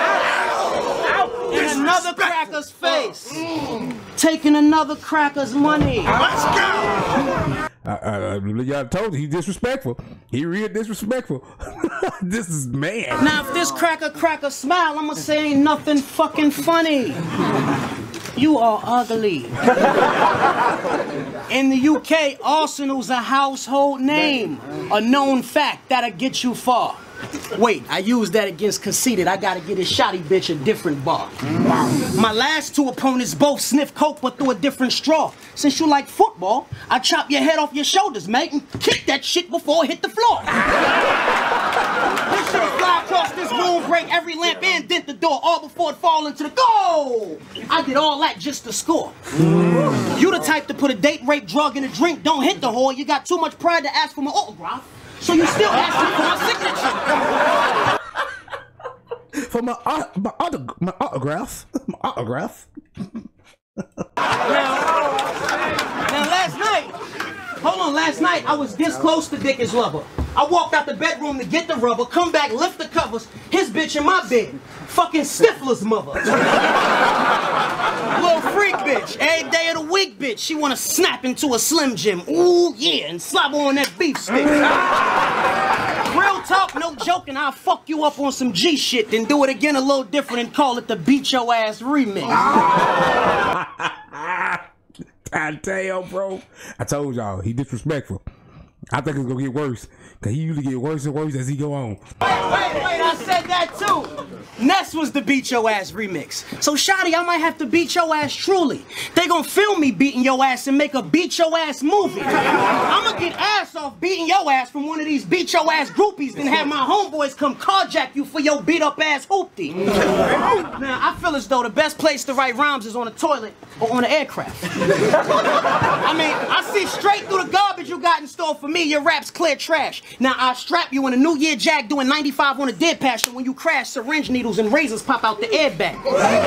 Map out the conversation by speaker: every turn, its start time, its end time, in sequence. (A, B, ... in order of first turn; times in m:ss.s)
0:01.2-0:03.4 A
0:04.2-0:06.5 A
0:07.8-0:13.4 B
0:13.2-0:17.2 A
0:18.4-0:19.6 A
0:21.5-0:27.0 A
0:27.5-0:31.4 A
0:32.1-0:40.6 A
0:42.3-0:49.2 A
0:49.9-0:57.3 A
0:59.5-1:03.2 B
1:04.5-1:05.0 A
1:06.1-1:07.0 A
1:07.6-1:16.4 A
1:18.1-1:24.7 A
1:26.0-1:32.5 A
1:32.6-1:34.6 B
1:35.3-1:38.2 B
1:38.9-1:42.0 B
1:42.3-2:04.6 A
2:05.9-2:16.2 A